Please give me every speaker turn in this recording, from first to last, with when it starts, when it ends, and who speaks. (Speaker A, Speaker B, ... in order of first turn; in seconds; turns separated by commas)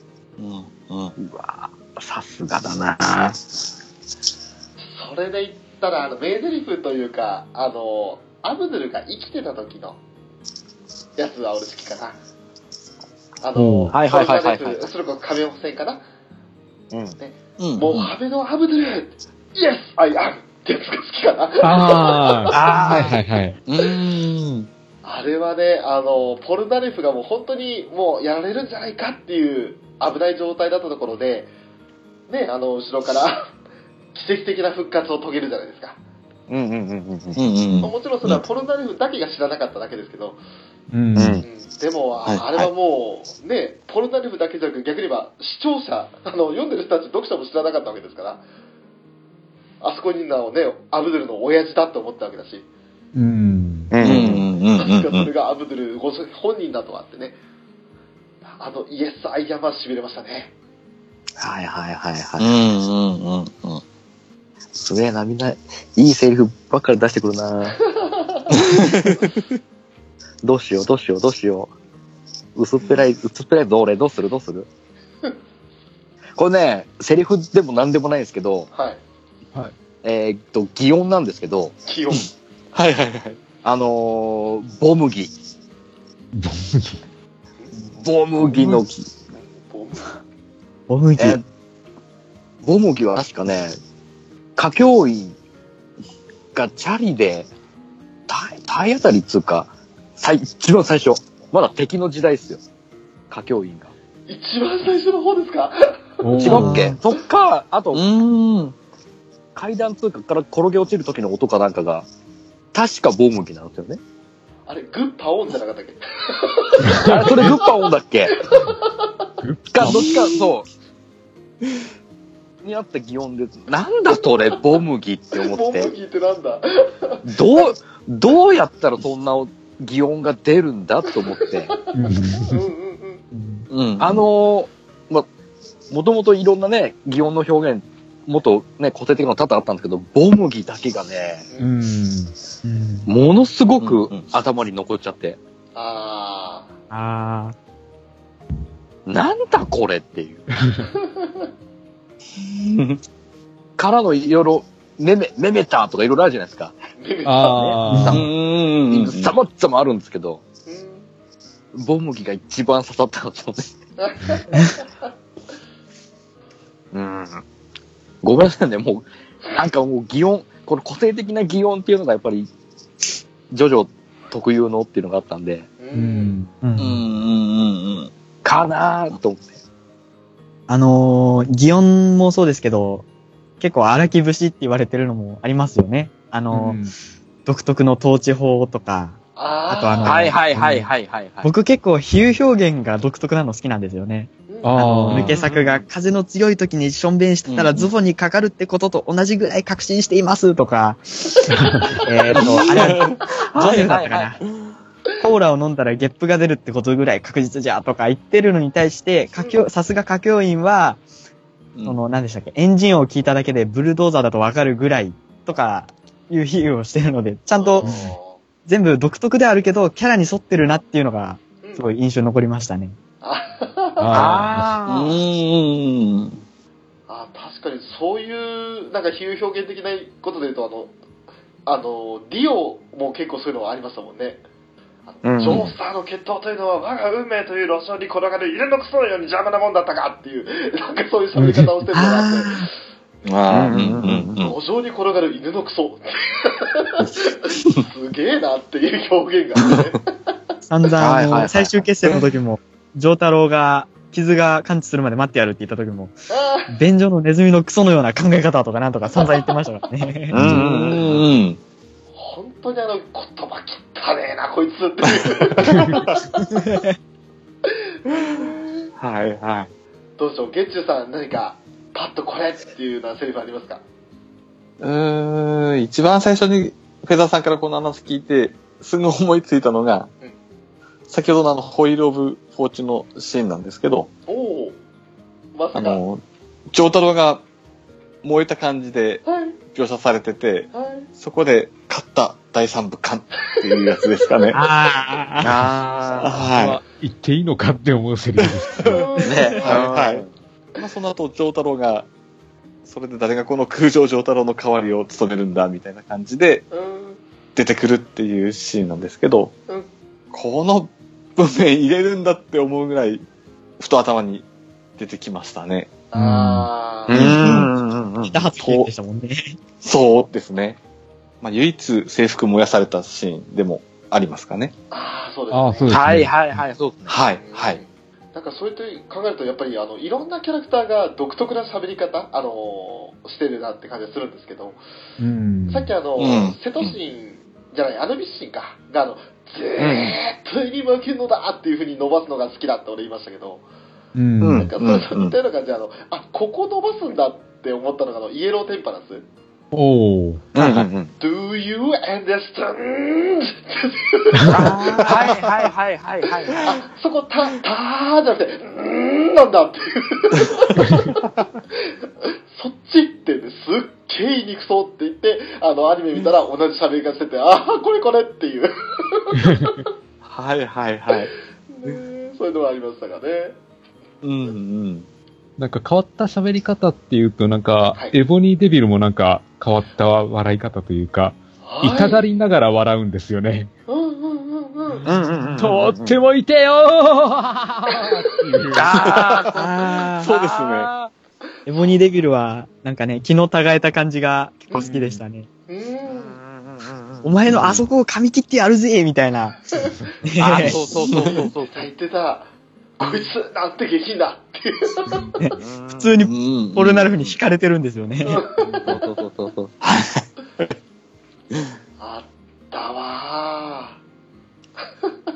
Speaker A: 0.4-1.1, Speaker B: 1.2-3.4, Speaker C: 4.8-10.0, Speaker C: 11.2-12.2, Speaker C: 13.4-16.0, Speaker D: 13.6-14.0, Speaker B: 13.9-14.9, Speaker C: 17.2-23.2, Speaker A: 17.6-17.9, Speaker D: 21.6-23.6, Speaker B: 22.5-23.2, Speaker A: 23.7-24.7, Speaker C: 25.0-31.5, Speaker C: 32.3-33.5, Speaker C: 34.1-36.0, Speaker B: 36.5-37.4, Speaker A: 37.4-38.4, Speaker C: 37.8-40.4, Speaker D: 40.9-41.5, Speaker B: 41.2-41.5, Speaker C: 41.4-48.4, Speaker A: 42.2-42.7, Speaker C: 49.8-52.7, Speaker D: 53.1-54.0, Speaker B: 53.9-54.5, Speaker A: 54.0-55.3, Speaker C: 54.6-57.4, Speaker C: 58.5-60.5, Speaker B: 61.4-62.5, Speaker A: 62.4-63.8, Speaker B: 64.8-67.8, Speaker C: 67.9-68.5, Speaker A: 68.6-69.4, Speaker B: 70.4-71.7, Speaker B: 72.6-74.7, Speaker B: 76.4-78.7, Speaker C: 78.7-79.0, Speaker B: 80.0-81.8, Speaker C: 81.8-82.3, Speaker A: 82.7-83.4, Speaker B: 83.6-85.3, Speaker D: 86.3-87.0, Speaker B: 88.0-89.0, Speaker A: 88.4-88.8, Speaker C: 89.4-90.1, Speaker E: 90.9-91.4, Speaker B: 91.2-91.4, Speaker B: 92.6-93.8, Speaker B: 94.6-95.3, Speaker B: 96.5-97.5, Speaker B: 98.3-102.6, Speaker B: 103.3-103.9, Speaker C: 104.3-106.6, Speaker D: 106.2-107.0, Speaker B: 106.4-108.0, Speaker E: 106.5-107.0, Speaker A: 107.9-108.8, Speaker B: 109.5-112.1, Speaker B: 112.7-114.0, Speaker C: 114.7-117.7, Speaker D: 116.8-117.6, Speaker B: 117.0-118.4, Speaker C: 118.5-119.2, Speaker D: 119.4-120.1, Speaker B: 119.7-120.7, Speaker B: 122.6-125.9, Speaker C: 125.3-127.7, Speaker B: 127.2-131.8, Speaker C: 131.3-133.2, Speaker D: 131.9-132.7, Speaker E: 133.3-133.7, Speaker A: 133.7-134.3, Speaker B: 134.0-135.3, Speaker B: 135.9-141.5, Speaker D: 141.6-142.3, Speaker E: 142.6-143.1, Speaker B: 143.1-145.4, Speaker A: 143.8-144.3, Speaker C: 145.8-146.7, Speaker E: 146.9-147.6, Speaker B: 149.1-150.5, Speaker D: 150.5-150.9, Speaker C: 150.8-151.5, Speaker A: 152.4-153.0, Speaker B: 153.8-156.7, Speaker C: 157.0-157.8, Speaker D: 157.3-158.2, Speaker B: 157.5-158.3, Speaker E: 157.9-158.2, Speaker A: 158.1-159.3, Speaker B: 158.9-160.4, Speaker C: 160.7-161.1, Speaker B: 161.7-163.7, Speaker C: 164.0-164.9, Speaker B: 166.9-167.4, Speaker B: 168.2-172.5, Speaker B: 173.5-175.7, Speaker C: 175.8-176.4, Speaker D: 175.9-176.6, Speaker E: 176.6-177.0, Speaker A: 176.8-178.1, Speaker B: 178.4-179.5, Speaker E: 180.7-183.1, Speaker E: 183.6-186.8, Speaker D: 186.5-186.9, Speaker E: 187.5-189.2, Speaker C: 189.4-190.2, Speaker E: 189.7-190.9, Speaker B: 190.0-191.5, Speaker E: 191.4-201.0, Speaker C: 194.5-194.8, Speaker D: 194.6-195.4, Speaker B: 194.8-195.8, Speaker A: 197.5-197.9, Speaker D: 201.5-202.0, Speaker E: 201.9-204.4, Speaker A: 202.3-204.0, Speaker B: 203.5-204.4, Speaker E: 205.2-211.0, Speaker C: 209.4-209.7, Speaker E: 211.8-217.9, Speaker C: 217.6-218.4, Speaker E: 218.7-223.0, Speaker C: 223.2-224.5, Speaker D: 224.0-224.8, Speaker B: 224.1-225.2, Speaker A: 224.8-226.4, Speaker C: 227.1-230.9, Speaker C: 231.7-234.4, Speaker C: 235.1-242.7, Speaker B: 235.2-235.7, Speaker D: 241.4-241.7, Speaker E: 241.9-242.7, Speaker A: 243.3-244.6, Speaker B: 243.5-244.4, Speaker C: 244.4-250.0, Speaker E: 250.6-256.2, Speaker B: 251.0-251.7, Speaker C: 256.3-256.8, Speaker E: 256.7-260.6, Speaker C: 259.1-259.6, Speaker B: 260.3-261.2, Speaker A: 260.4-261.6, Speaker C: 262.1-266.5, Speaker A: 265.1-266.1, Speaker D: 265.6-266.0, Speaker E: 266.5-266.9, Speaker C: 267.7-268.9, Speaker A: 269.0-269.7, Speaker C: 270.2-273.8, Speaker A: 274.8-280.1, Speaker A: 281.1-284.1, Speaker C: 284.3-284.8, Speaker C: 285.6-286.0, Speaker A: 285.7-287.4, Speaker A: 288.2-294.6, Speaker C: 289.2-289.6, Speaker C: 290.7-291.1, Speaker C: 293.6-294.5, Speaker E: 294.5-295.8, Speaker B: 295.4-296.3, Speaker A: 296.2-296.8, Speaker D: 296.3-299.3, Speaker C: 298.8-299.7, Speaker B: 299.2-300.3, Speaker A: 299.2-300.3, Speaker A: 300.8-302.1, Speaker A: 302.9-306.6, Speaker C: 306.7-307.2, Speaker A: 307.6-309.5, Speaker A: 310.3-313.2, Speaker A: 313.8-314.5, Speaker A: 315.0-315.9, Speaker C: 316.1-317.4, Speaker D: 316.1-316.7, Speaker A: 317.1-317.7, Speaker B: 317.1-318.4, Speaker E: 318.3-319.6, Speaker A: 318.6-318.9, Speaker A: 319.8-320.8, Speaker A: 321.4-324.7, Speaker C: 324.9-326.0, Speaker D: 325.5-326.6, Speaker B: 325.9-327.2, Speaker A: 327.1-327.8, Speaker C: 327.4-334.8, Speaker D: 335.2-335.9, Speaker C: 335.7-343.6, Speaker A: 336.2-337.0, Speaker B: 339.8-340.2, Speaker D: 344.1-344.7, Speaker A: 344.4-345.4, Speaker C: 344.6-349.2, Speaker D: 349.7-350.4, Speaker B: 350.5-351.1, Speaker A: 350.6-350.9, Speaker C: 351.2-355.3, Speaker B: 354.5-356.6, Speaker A: 354.6-355.7, Speaker C: 356.6-361.2, Speaker C: 362.5-369.9, Speaker A: 370.2-371.3, Speaker C: 371.7-373.6, Speaker A: 374.2-375.1, Speaker D: 375.6-383.7, Speaker C: 381.6-382.3, Speaker C: 383.9-385.1, Speaker B: 385.1-386.2, Speaker D: 385.1-389.0, Speaker C: 387.9-388.8, Speaker B: 388.8-391.1, Speaker A: 389.0-390.9, Speaker E: 389.6-390.3, Speaker C: 391.6-392.0, Speaker E: 391.7-395.5, Speaker D: 394.7-395.2, Speaker C: 395.7-396.4, Speaker B: 396.1-397.4, Speaker E: 397.2-399.6, Speaker A: 397.5-397.9, Speaker E: 400.2-400.9, Speaker B: 400.4-401.9, Speaker C: 400.6-405.2, Speaker A: 401.1-401.4, Speaker E: 405.4-408.4, Speaker B: 405.6-406.1, Speaker A: 406.2-407.4, Speaker C: 408.2-409.0, Speaker D: 408.6-408.9, Speaker B: 408.9-409.7, Speaker A: 409.8-410.7, Speaker C: 412.0-414.0, Speaker C: 414.8-415.1